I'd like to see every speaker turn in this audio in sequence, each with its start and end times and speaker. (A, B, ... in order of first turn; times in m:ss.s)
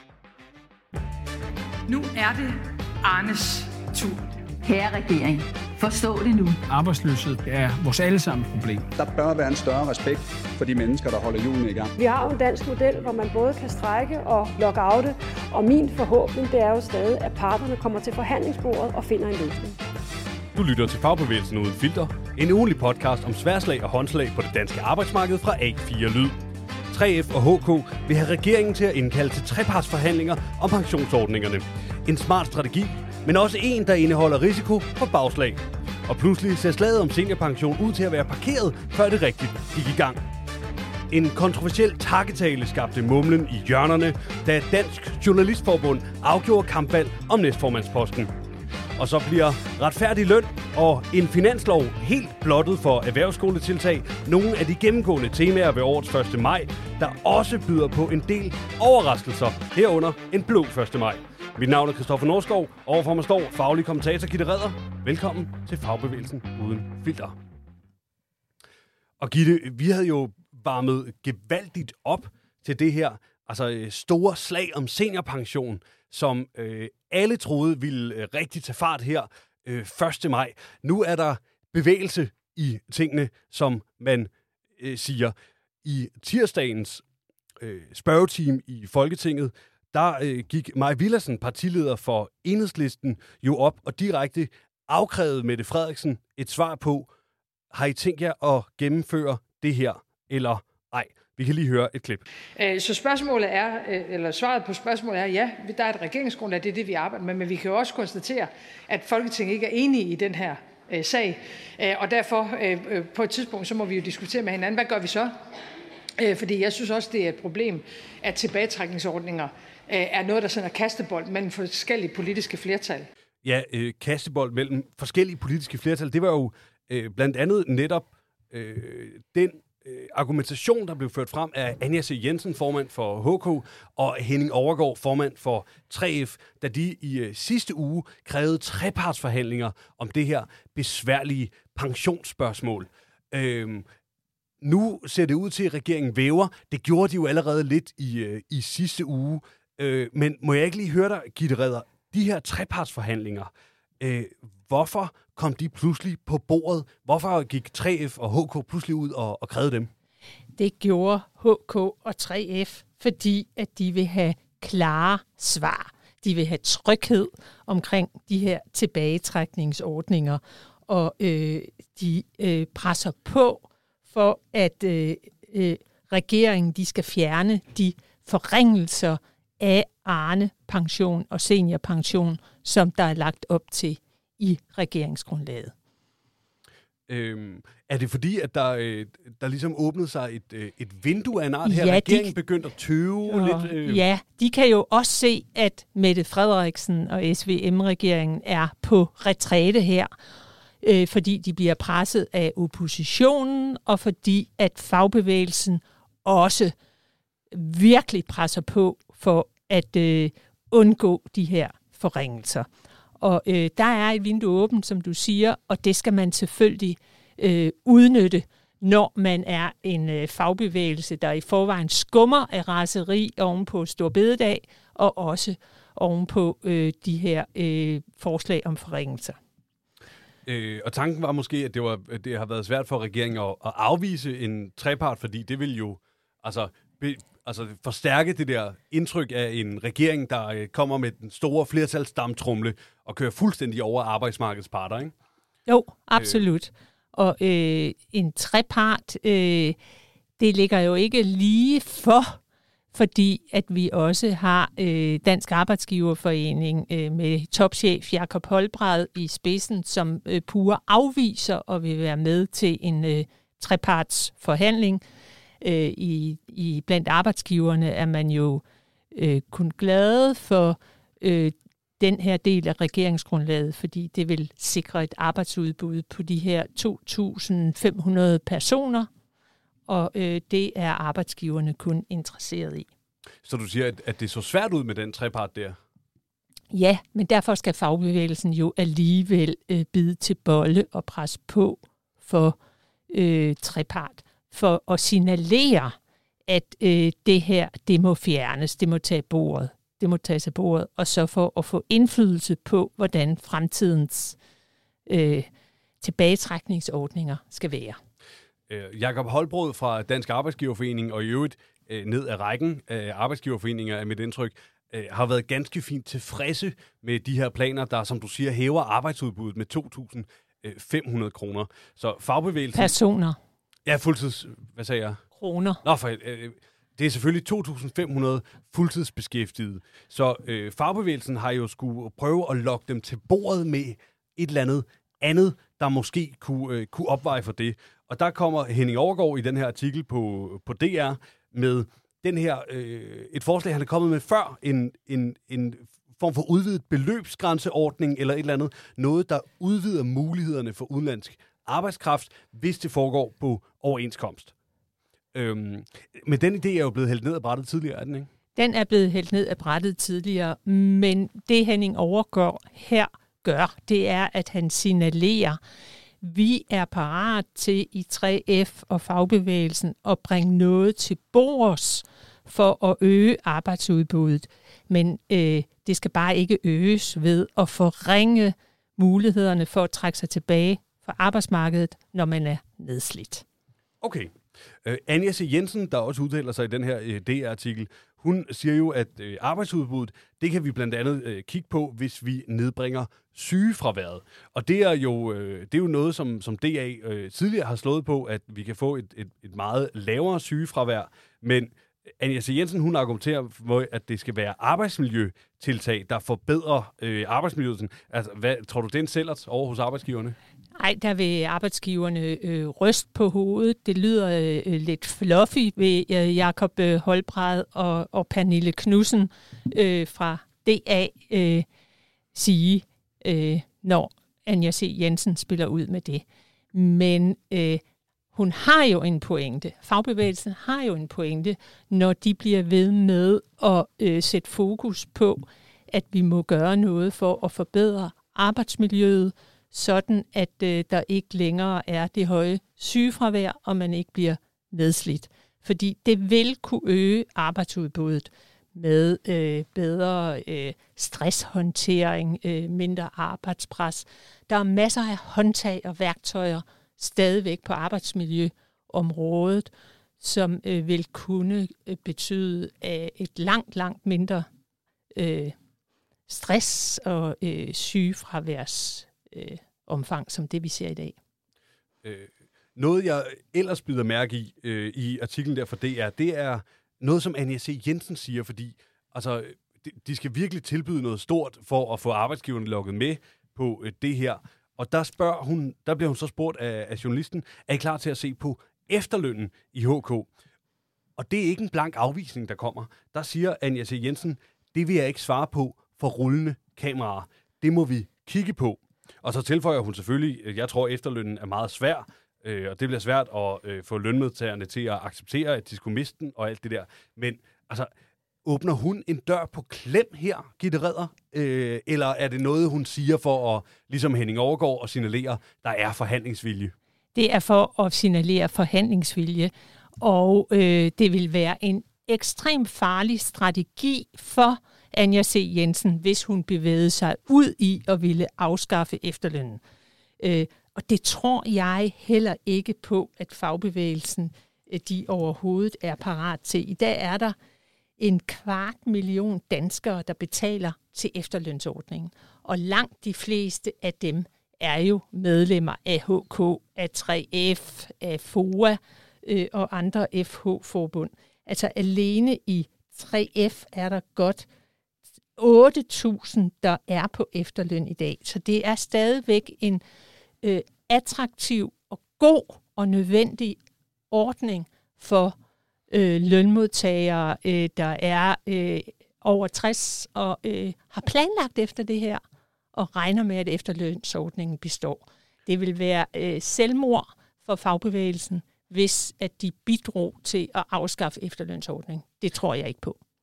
0:01.9-0:04.3 A
0:04.6-0:06.6 B
0:06.7-0:08.9 C
0:09.0-0:11.9 D
0:12.0-0:19.8 E
0:20.5-0:40.2 F
0:41.1-0:48.3 F
0:49.0-1:07.4 F
1:09.2-1:27.0 F
1:27.6-1:37.1 F
1:37.7-1:42.2 F
1:42.6-1:55.3 A
1:56.2-2:03.1 A
2:03.4-2:23.9 F
2:24.6-2:39.9 F
2:40.6-3:05.7 G
3:07.1-3:14.0 F
3:11.6-3:12.3 G
3:13.3-3:20.1 G
3:20.8-3:26.7 G
3:27.5-3:32.7 G
3:33.2-3:49.4 G
3:50.4-4:05.1 F
4:05.7-4:09.8 G
4:06.1-4:06.4 F
4:10.4-4:12.4 G
4:12.9-4:25.0 G
4:25.6-4:28.6 G
4:29.1-4:39.1 G
4:39.9-4:42.9 G
4:43.4-4:45.8 F
4:46.7-4:52.6 G
4:53.1-4:56.0 G
4:56.5-5:04.4 G
5:05.1-5:05.5 G
5:06.0-5:08.0 G
5:08.7-5:22.9 F
5:22.7-5:23.4 G
5:23.8-5:25.2 F
5:25.4-5:25.8 G
5:25.8-5:54.5 F
5:55.3-5:58.3 F
5:58.6-6:05.6 G
6:06.2-6:23.4 G
6:24.0-6:50.4 F
6:50.8-7:01.6 G
7:02.3-7:07.8 G
7:08.3-7:44.4 G
7:45.1-7:45.5 G
7:46.3-7:51.2 G
7:52.0-8:10.3 F
8:11.2-8:27.9 F
8:28.4-8:36.7 F
8:37.1-8:49.6 G
8:50.2-8:57.4 G
8:58.0-9:14.4 G
9:15.4-9:19.8 G
9:20.4-9:23.6 G
9:24.1-9:25.3 G
9:25.9-9:32.2 G
9:32.7-9:43.0 G